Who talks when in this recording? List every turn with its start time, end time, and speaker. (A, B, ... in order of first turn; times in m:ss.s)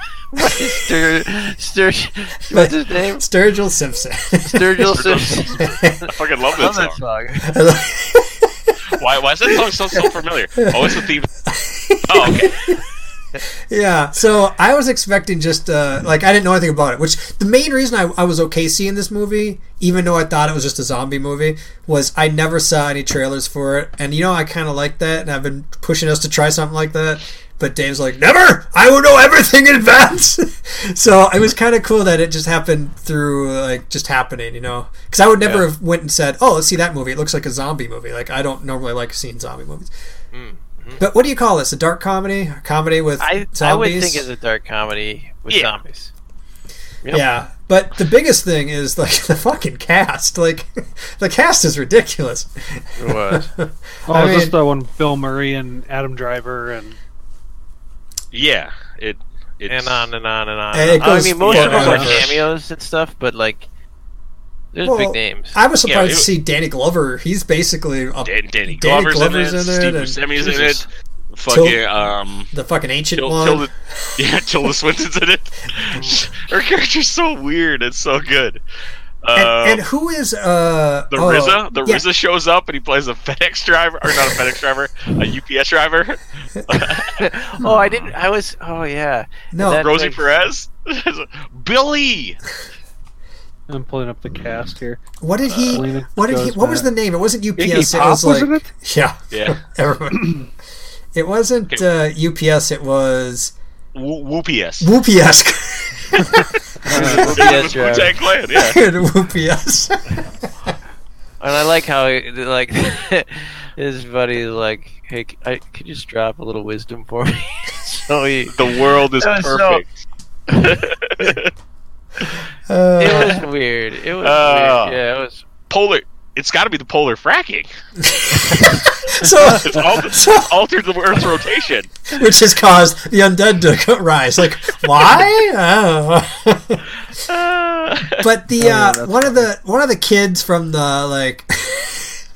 0:00.3-0:03.2 A
0:00.4-0:00.7 B
0:02.5-0:04.9 B
0:04.4-0:05.6 A
0:04.9-0:07.0 C
0:05.6-0:06.0 B
0:06.5-0:07.5 A
0:07.4-0:08.8 B
0:08.9-0:11.3 C
0:09.5-0:12.8 B
0:12.1-0:12.8 C
0:13.7-0:39.9 B
0:40.3-0:41.0 A
0:41.0-0:44.3 B
0:43.2-0:46.1 A
0:45.5-0:45.8 C
0:47.1-0:54.6 B
0:53.0-0:53.5 A
0:54.1-0:57.0 D
0:58.3-1:00.1 C
0:59.7-1:03.7 A
1:00.7-1:02.3 B
1:01.4-1:02.4 C
1:04.7-1:05.6 A
1:04.8-1:10.8 B
1:05.9-1:06.3 C
1:08.2-1:12.5 C
1:11.5-1:11.8 B
1:12.5-1:14.2 B
1:13.2-1:18.6 C
1:19.2-1:19.8 C
1:19.4-1:22.0 B
1:21.1-1:27.2 C
1:27.1-1:30.2 A
1:29.5-1:29.9 B
1:29.7-1:32.4 C
1:33.7-1:35.0 D
1:35.2-1:40.5 B
1:35.5-1:35.8 C
1:35.7-1:36.9 D
1:37.6-1:38.7 D
1:39.3-1:39.6 C
1:41.1-1:43.6 B
1:43.9-1:44.9 C
1:44.8-1:47.5 B
1:46.9-1:48.1 A
1:46.9-1:47.3 D
1:46.9-1:48.8 C
1:48.5-1:50.5 B
1:51.4-1:58.6 A
1:58.5-2:01.5 C
1:59.2-1:59.8 A
2:02.7-2:03.4 B
2:03.0-2:05.4 A
2:04.2-2:05.0 C
2:05.7-2:07.7 C
2:08.0-2:10.5 B
2:09.6-2:12.0 C
2:12.1-2:16.8 B
2:17.2-2:18.3 C
2:18.1-2:22.2 B
2:18.6-2:19.5 D